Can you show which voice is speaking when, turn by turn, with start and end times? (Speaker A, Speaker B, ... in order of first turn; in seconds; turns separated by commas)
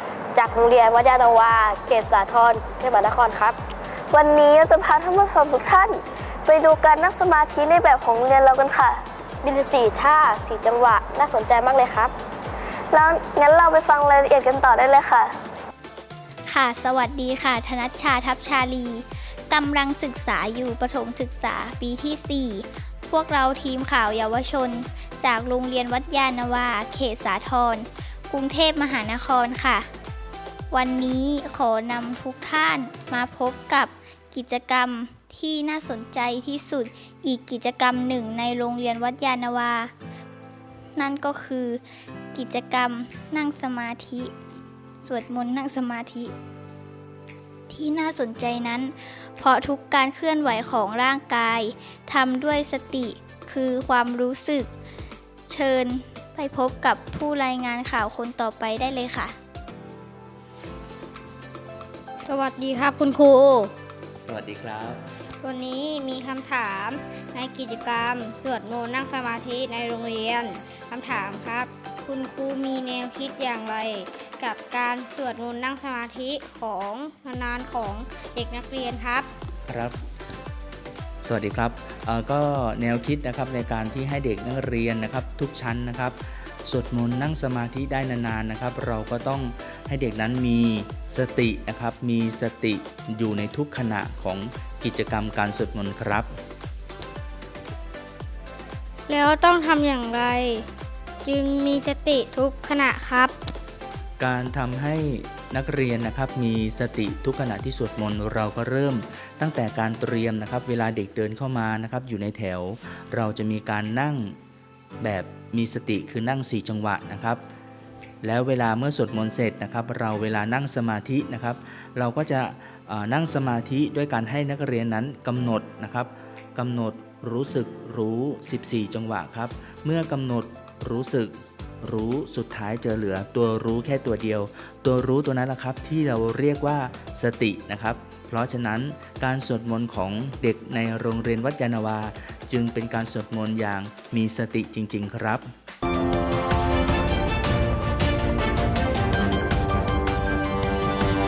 Speaker A: 0.3-3.6, Speaker B: 4.1-9.0, Speaker A: 9.4-12.1, Speaker B: 12.9-15.3, Speaker C: 16.4-29.9, Speaker C: 30.7-39.9, Speaker C: 40.9-41.8, Speaker C: 42.3-44.3, Speaker C: 45.0-46.3, Speaker C: 47.7-54.7, Speaker C: 55.5-59.4, Speaker D: 62.3-63.7, Speaker E: 64.2-65.0, Speaker D: 65.4-79.3, Speaker E: 79.7-80.0, Speaker E: 81.2-96.4, Speaker D: 99.1-100.7, Speaker D: 101.2-103.3, Speaker E: 104.2-114.4, Speaker E: 115.0-117.4, Speaker E: 118.2-145.5